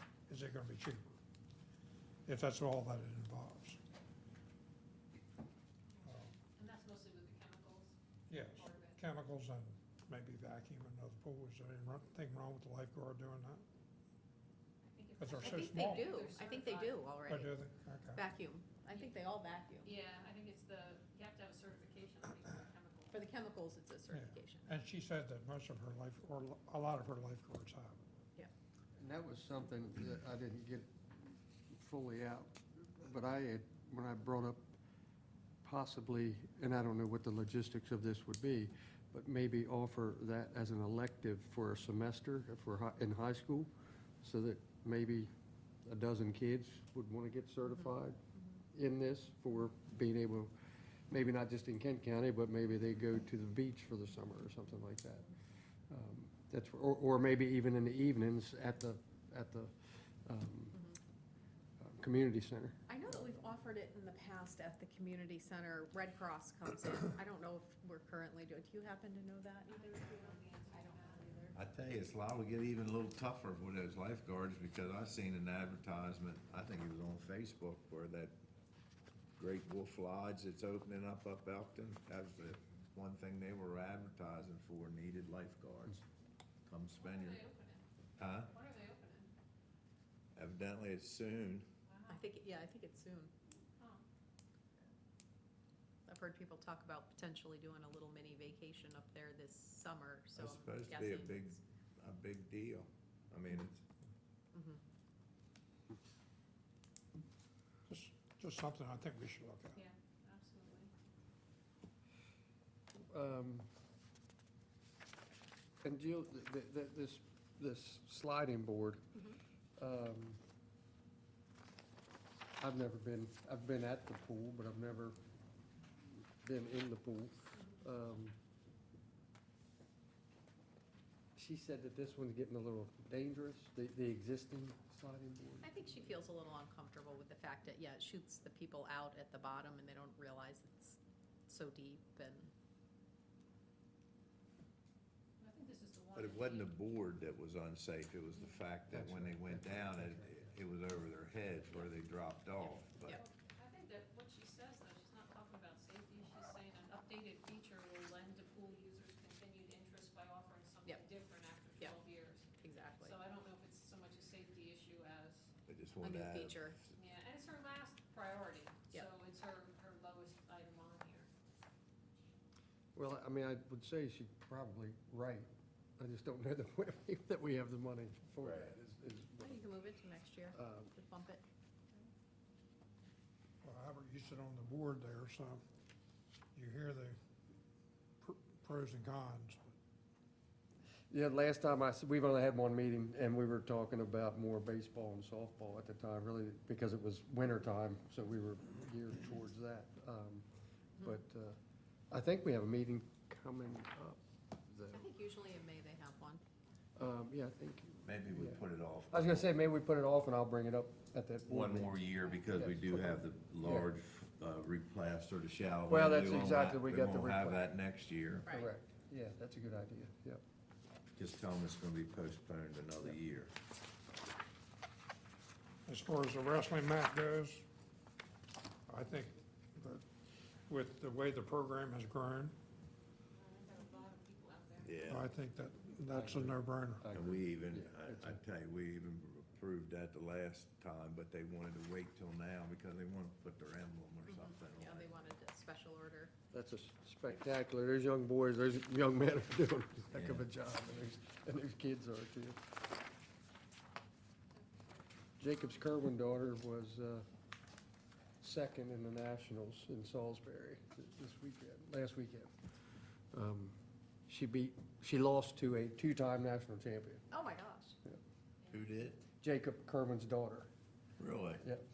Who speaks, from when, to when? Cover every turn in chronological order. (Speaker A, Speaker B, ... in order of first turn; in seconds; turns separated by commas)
Speaker A: 0.3-1.0, Speaker A: 2.2-3.8, Speaker A: 6.0-6.3, Speaker B: 6.0-7.9, Speaker A: 8.3-13.6, Speaker B: 8.5-9.0, Speaker B: 14.8-17.1, Speaker A: 15.2-16.1, Speaker C: 15.4-19.9, Speaker A: 17.3-18.2, Speaker B: 19.8-23.1, Speaker C: 23.1-24.7, Speaker A: 24.1-28.0, Speaker D: 29.0-34.8, Speaker D: 35.6-43.7, Speaker D: 44.2-45.3, Speaker D: 45.8-48.2, Speaker C: 47.6-48.6, Speaker D: 48.7-50.5, Speaker D: 51.1-55.3, Speaker D: 55.9-60.8, Speaker D: 61.8-62.8, Speaker C: 62.9-71.5, Speaker B: 69.6-71.5, Speaker E: 71.5-78.3, Speaker E: 79.4-86.0, Speaker E: 86.7-87.4, Speaker B: 87.0-87.8, Speaker E: 88.2-88.5, Speaker B: 88.5-89.3, Speaker E: 90.3-91.7, Speaker B: 91.9-92.2, Speaker C: 92.1-93.3, Speaker C: 96.0-101.5, Speaker E: 100.4-103.8, Speaker C: 104.5-104.8, Speaker A: 107.9-109.8, Speaker B: 109.7-110.9, Speaker D: 113.1-113.7, Speaker D: 115.8-119.2, Speaker D: 119.8-120.4, Speaker D: 122.6-125.2, Speaker D: 126.1-128.3, Speaker D: 131.3-135.7, Speaker C: 135.6-142.5, Speaker B: 145.4-146.7, Speaker E: 146.1-153.2, Speaker D: 148.9-150.4, Speaker B: 153.1-162.4, Speaker C: 162.6-163.2, Speaker B: 163.0-165.5, Speaker E: 165.7-166.7, Speaker C: 166.0-166.8, Speaker B: 166.9-171.3, Speaker D: 172.9-179.7, Speaker E: 178.4-178.7, Speaker C: 179.4-181.4, Speaker D: 180.5-180.9, Speaker A: 183.6-185.6, Speaker A: 186.5-187.2, Speaker A: 188.2-189.8, Speaker D: 191.1-200.4, Speaker D: 201.0-201.6, Speaker D: 202.1-205.1, Speaker C: 204.9-206.4, Speaker D: 206.9-213.9, Speaker E: 208.0-209.5, Speaker E: 211.4-218.5, Speaker D: 215.9-217.7, Speaker C: 218.4-218.7, Speaker D: 218.5-220.4, Speaker E: 221.1-223.5, Speaker A: 225.8-227.6, Speaker A: 228.9-230.1, Speaker A: 230.7-232.5, Speaker B: 233.3-235.0, Speaker E: 234.8-235.3, Speaker A: 235.1-237.1, Speaker D: 236.1-238.4, Speaker E: 237.1-245.1, Speaker C: 244.3-246.3, Speaker D: 246.5-252.6, Speaker E: 250.1-250.5, Speaker B: 254.5-255.1, Speaker D: 255.4-257.2, Speaker D: 258.4-262.5, Speaker D: 263.3-263.8, Speaker D: 264.3-267.2, Speaker C: 267.3-268.0, Speaker E: 268.7-269.2, Speaker D: 269.4-270.7, Speaker E: 271.2-271.7